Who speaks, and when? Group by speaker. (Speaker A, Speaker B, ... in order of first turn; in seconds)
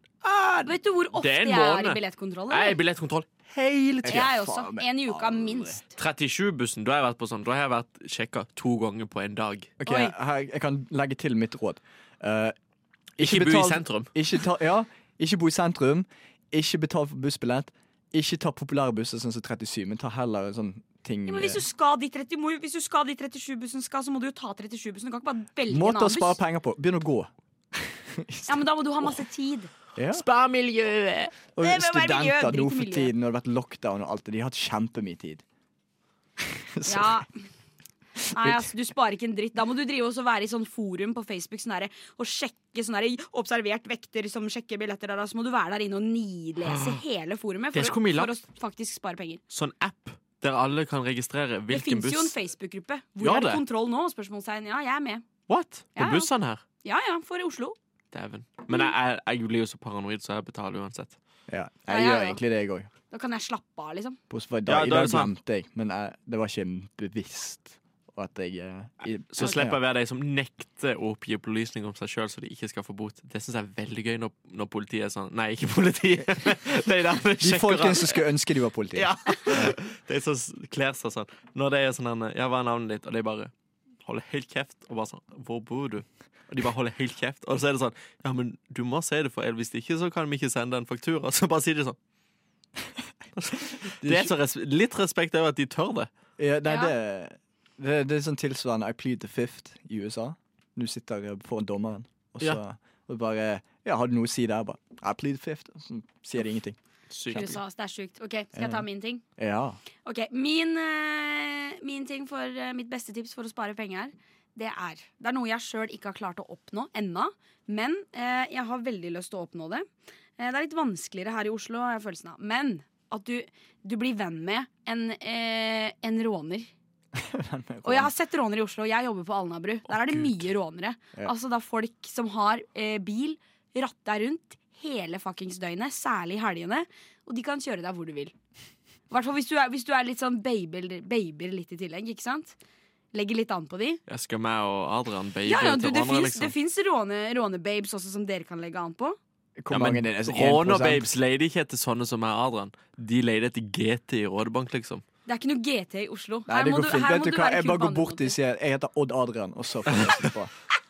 Speaker A: 0.2-4.3, 6.0-9.7, 13.2-14.1, 30.1-31.3, 46.6-47.0, 47.7-48.3, 49.5-52.4, 53.2-53.6, 55.5-56.6, 58.1-61.1, 64.7-65.3, 69.0-78.3, 78.9-83.5, 84.0-92.0, 93.3-96.1, 107.1-107.6, 144.1-146.5, 149.7-155.0
Speaker B: 0.6-2.8, 4.1-5.9, 9.8-10.1, 21.3-26.4, 28.5-29.7, 31.6-33.1, 36.9-37.4, 38.3-49.4, 51.7-55.2, 56.0-56.3, 56.8-57.8, 61.9-62.4, 63.1-64.2, 96.7-96.9, 107.3-109.2, 110.0-126.7, 127.8-138.3, 139.1-142.6, 143.1-144.0, 145.4-149.2, 155.3-158.3
Speaker C: 4.0-5.8, 9.8-12.6, 13.2-21.6, 25.7-28.6, 29.9-30.2, 31.6-35.4, 36.5-37.2, 38.4-38.6, 61.5-62.9, 64.3-69.8, 77.4-79.7, 93.9-94.3, 96.4-106.8, 107.3-107.6, 108.5-108.8, 109.4-109.8, 127.1-128.1, 149.6-151.1, 156.5-160.5